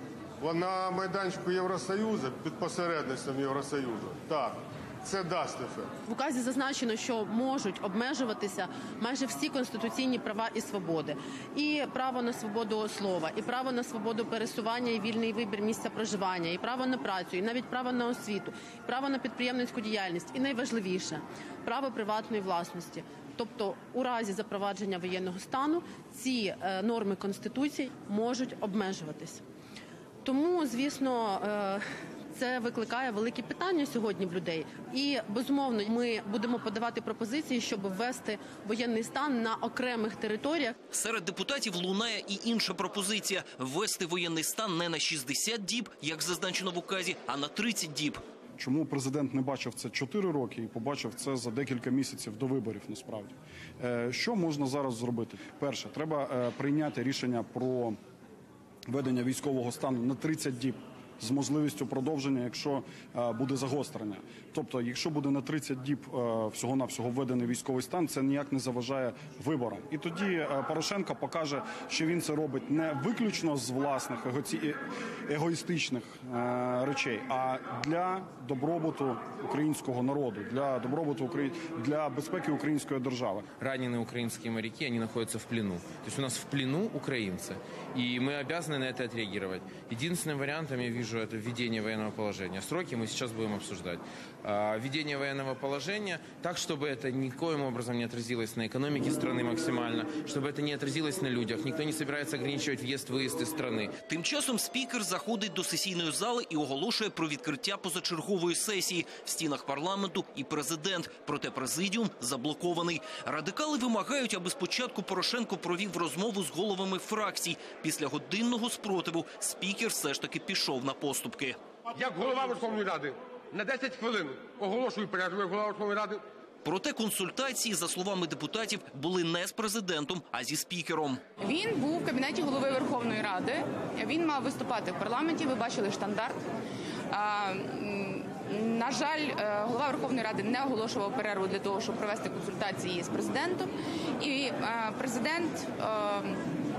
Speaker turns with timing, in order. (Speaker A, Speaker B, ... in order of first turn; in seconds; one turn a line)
Speaker A: 0.4-5.9
Speaker B: 6.1-29.4
Speaker B: 30.2-40.8
Speaker C: 40.9-48.2
Speaker D: 48.6-58.0
Speaker D: 58.9-83.5
Speaker E: 83.5-104.0
Speaker C: 104.0-121.6
Speaker F: 121.9-126.2
Speaker C: 126.6-131.2
Speaker B: 131.4-136.4
Speaker B: 137.1-146.4